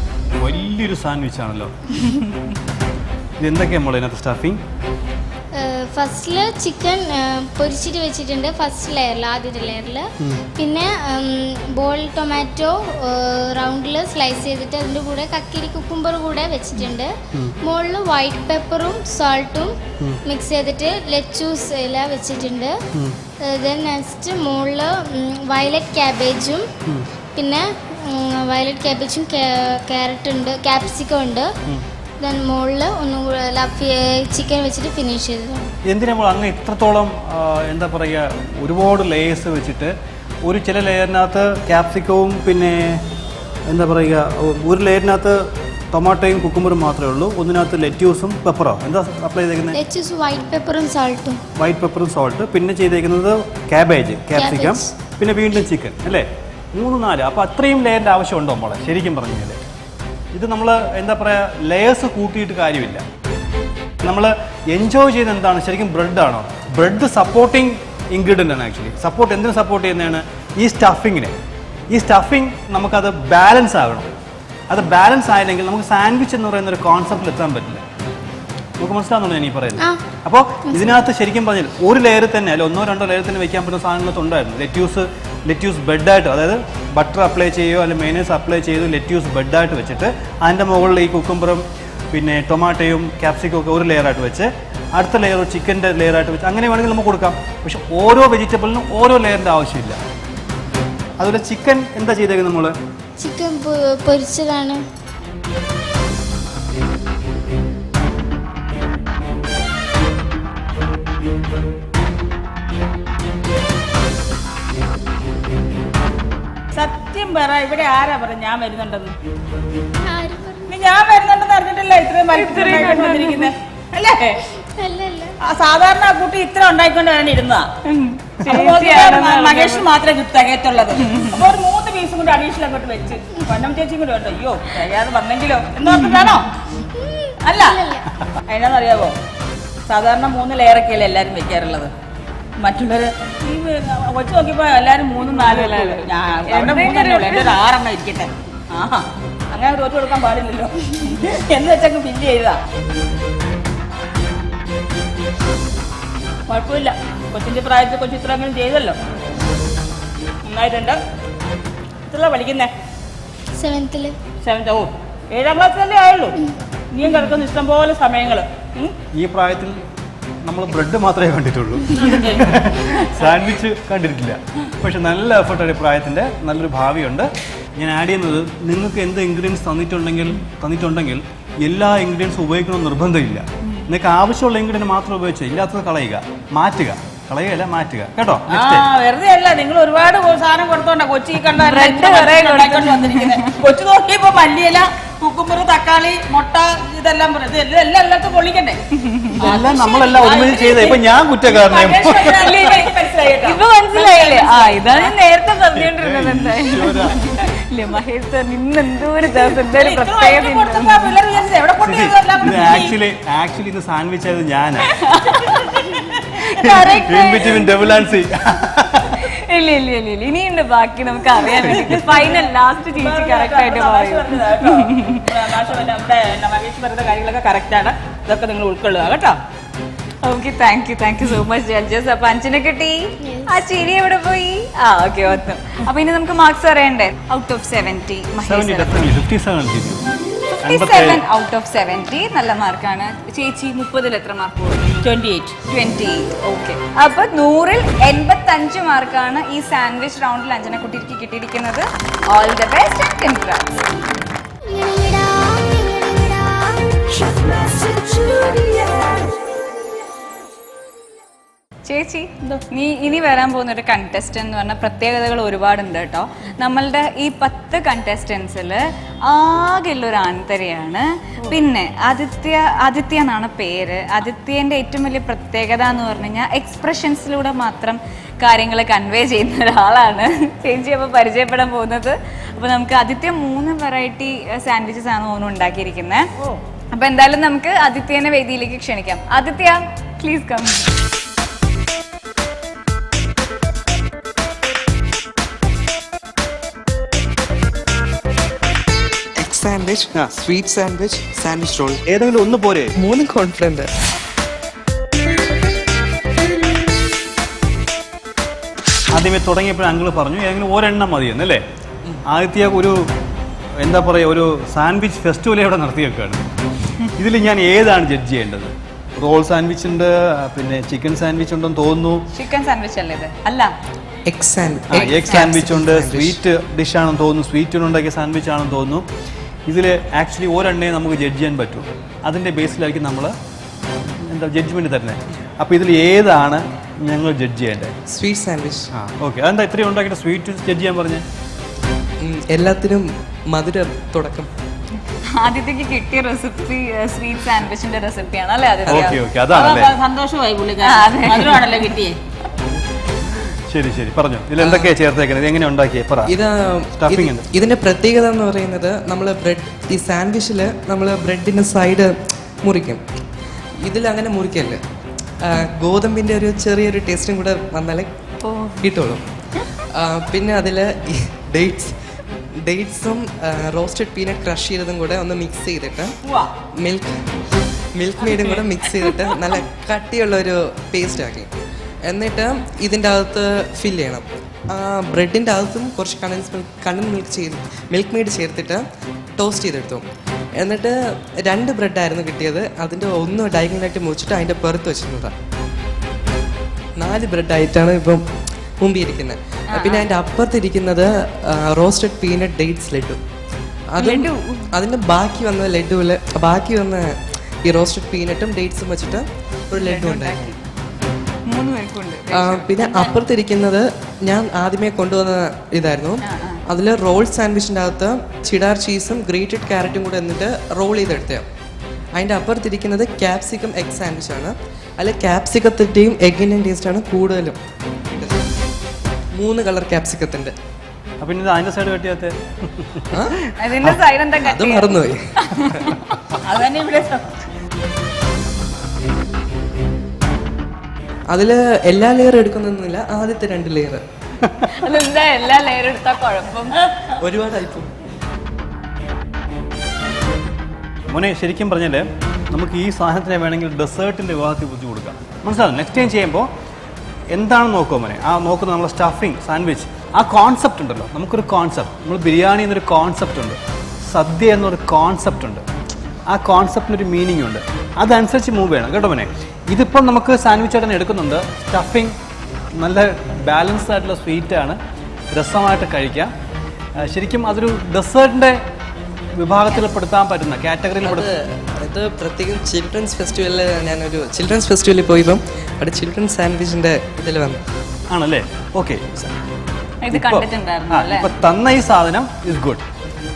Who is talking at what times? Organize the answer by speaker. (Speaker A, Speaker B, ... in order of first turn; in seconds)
Speaker A: 0.3-1.7, 3.4-4.6, 16.8-17.6, 35.9-39.9, 40.5-43.0, 43.7-45.4, 45.9-49.8, 51.6-59.6, 60.3-63.0, 64.0-71.3, 71.9-74.1, 74.7-77.8, 78.8-100.0, 101.2-102.8, 169.1-169.8, 170.5-188.8, 199.4-202.6, 205.7-207.2, 211.8-214.9, 216.7-219.2, 238.4-240.0, 240.7-241.2, 302.1-302.9, 309.1-311.6, 312.3-313.0, 313.8-316.4, 317.2-322.2, 324.9-329.1, 329.7-333.3, 334.2-337.9, 338.9-341.2, 348.9-349.9, 353.7-356.3, 357.0-357.4, 431.2-433.4, 451.1-456.5, 457.3-463.6, 464.1-465.6, 466.3-472.1, 472.8-474.8, 475.3-476.3, 477.0-478.6, 479.4-481.3, 488.1-489.3, 490.1-492.8
Speaker B: 5.6-22.8, 23.4-26.7, 27.4-31.5, 32.2-35.7, 49.7-51.4, 54.3-54.9, 80.7-81.0, 103.2-104.8, 120.0-120.8, 124.5-125.4, 136.8-138.1, 163.6-164.2, 233.2-233.6, 254.7-257.2, 258.2-258.6
Speaker C: 116.7-119.2, 120.7-124.4, 125.5-127.7, 128.4-136.5, 137.4-139.2, 139.9-141.9, 142.6-152.6, 156.5-159.0, 160.4-161.0, 162.1-162.7, 164.4-166.4, 166.9-168.9, 172.1-172.4, 188.5-198.8, 199.4-205.1, 209.4-212.9, 221.5-229.4, 245.0-245.6, 349.5-352.2, 436.4-437.3
Speaker D: 122.3-123.5, 127.8-129.9, 130.9-131.4, 145.2-147.6, 191.6-193.6, 198.9-199.6, 202.3-211.2, 214.9-218.0, 219.2-225.3, 230.2-239.1, 240.5-245.1, 245.7-253.7, 261.9-286.3, 286.9-290.9, 322.3-323.7, 325.0-325.5, 345.3-349.2, 350.8-351.6, 368.4-368.9, 399.7-400.0, 404.0-404.7, 409.7-410.6, 411.5-413.1, 416.2-416.6, 433.6-436.1, 444.7-446.8, 490.0-491.3
Speaker E: 299.4-302.0, 303.0-303.9, 324.3-326.4, 338.1-338.9, 342.2-344.5, 354.6-354.9, 356.3-363.0, 363.8-364.8, 365.4-368.1, 368.8-369.2, 369.8-371.9, 372.6-376.2, 376.8-381.5, 382.1-388.8, 389.4-390.0, 390.6-395.3, 397.0-398.2, 398.8-403.2, 403.9-410.6, 412.3-421.4, 422.2-427.6, 428.1-428.4, 429.4-430.5, 434.4-435.9, 441.3-444.0, 447.2-447.9, 481.0-487.6